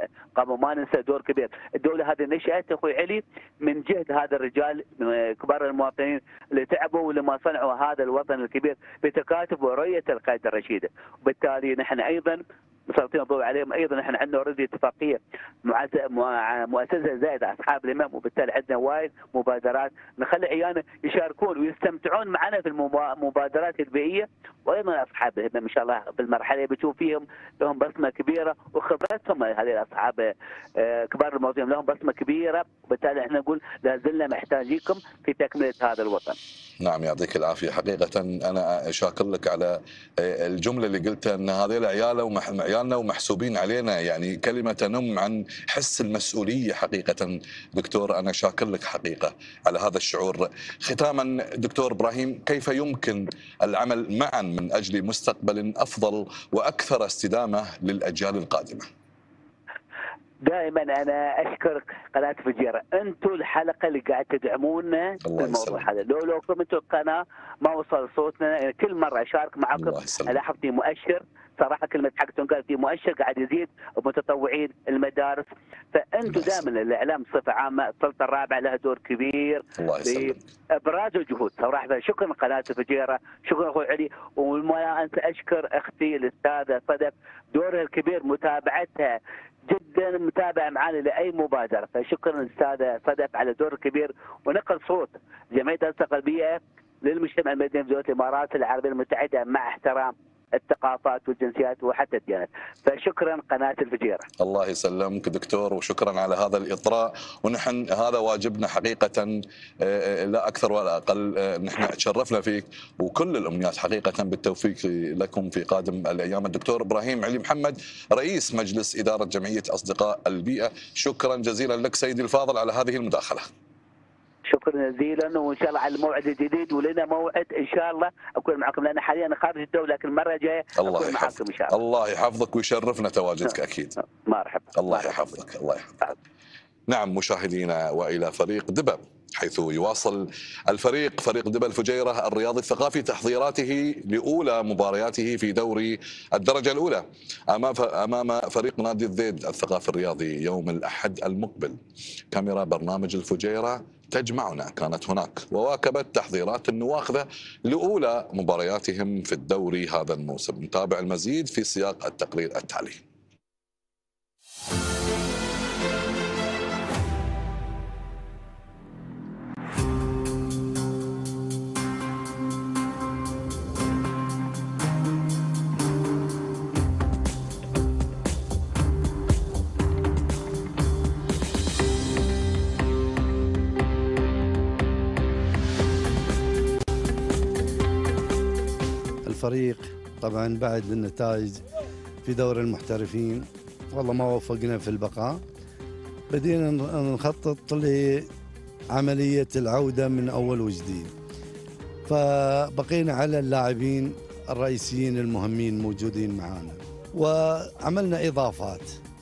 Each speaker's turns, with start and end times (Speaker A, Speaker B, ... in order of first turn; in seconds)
Speaker A: 0.3-36.4, 60.4-104.3, 124.5-131.8, 134.2-135.2
Speaker B: 36.8-58.9, 65.2-65.9, 69.7-70.4, 76.3-76.6, 79.8-80.4, 104.4-123.5, 130.8-134.0, 134.7-136.0, 136.9-151.8, 152.3-163.0
Speaker C: 189.2-191.6, 192.2-195.4, 196.3-198.3, 198.9-201.1, 202.1-209.0